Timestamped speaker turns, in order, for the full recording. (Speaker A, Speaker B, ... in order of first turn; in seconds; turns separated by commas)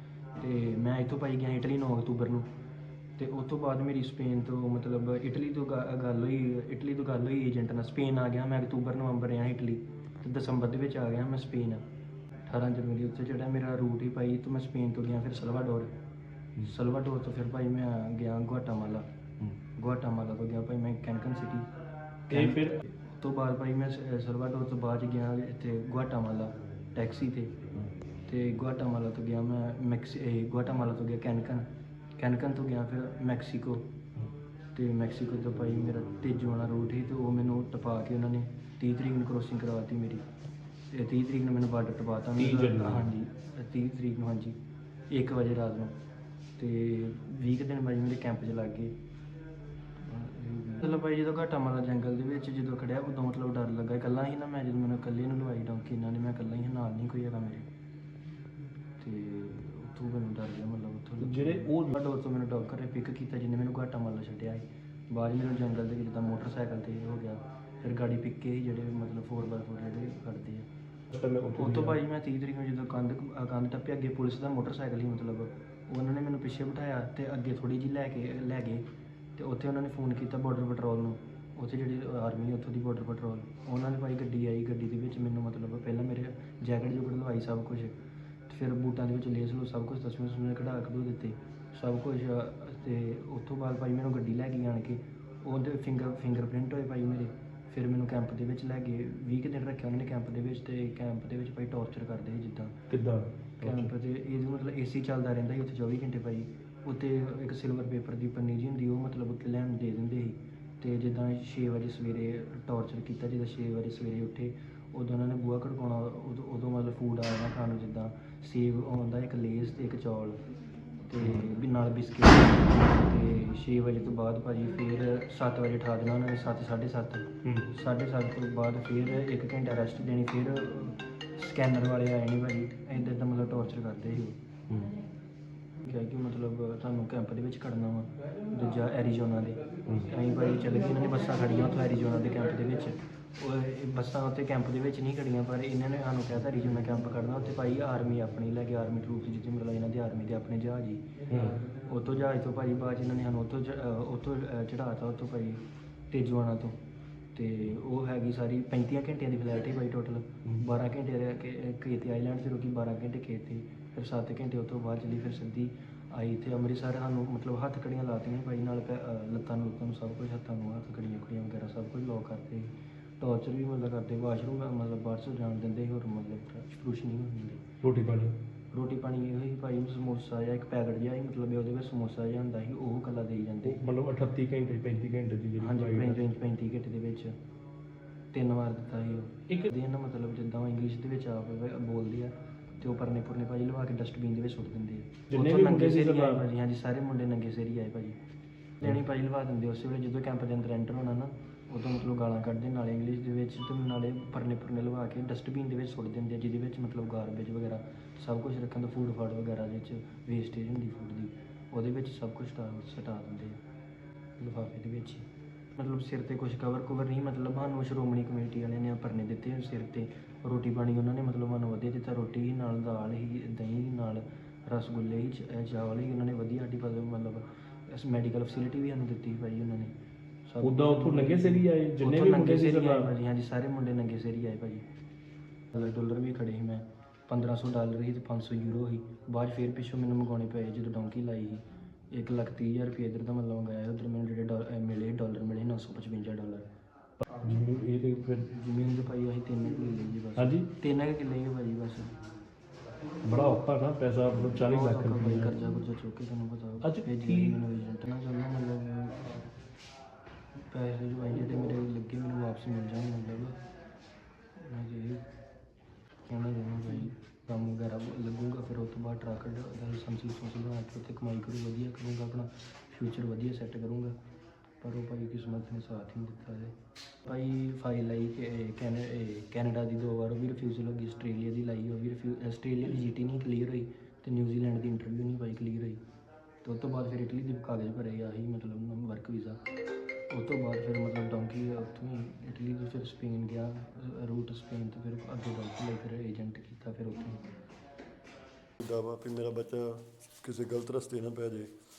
Speaker A: 0.3-2.5, Speaker A: 3.2-11.8, Speaker A: 12.4-15.9, Speaker A: 16.6-19.1, Speaker A: 19.7-21.7, Speaker A: 22.3-27.6, Speaker B: 22.3-22.8, Speaker A: 28.2-33.9, Speaker A: 34.7-40.2, Speaker A: 40.9-44.6, Speaker B: 42.4-43.1, Speaker A: 45.1-45.9, Speaker A: 46.6-48.9, Speaker A: 50.0-57.7, Speaker A: 59.0-70.7, Speaker B: 61.2-61.9, Speaker B: 71.1-72.0, Speaker A: 71.5-78.8, Speaker A: 79.3-102.8, Speaker B: 102.9-103.9, Speaker A: 103.6-120.4, Speaker A: 121.1-134.4, Speaker B: 127.4-127.7, Speaker B: 134.7-134.9, Speaker A: 135.8-156.8, Speaker B: 151.3-151.6, Speaker A: 157.3-177.6, Speaker B: 177.8-178.4, Speaker A: 178.7-183.8, Speaker B: 183.6-186.3, Speaker A: 185.6-187.3, Speaker A: 188.3-198.2, Speaker B: 195.3-196.4, Speaker A: 198.8-213.6, Speaker A: 214.4-229.9, Speaker A: 230.4-234.8, Speaker B: 230.6-233.1, Speaker A: 235.7-246.7, Speaker B: 247.2-248.5, Speaker A: 248.5-252.2, Speaker B: 250.4-250.7, Speaker B: 253.2-255.6, Speaker A: 254.6-259.4, Speaker B: 256.8-257.6, Speaker A: 260.6-263.6, Speaker A: 264.6-265.3, Speaker A: 266.3-274.1, Speaker A: 274.8-286.0, Speaker A: 286.6-289.6, Speaker A: 290.3-297.4, Speaker C: 298.8-301.7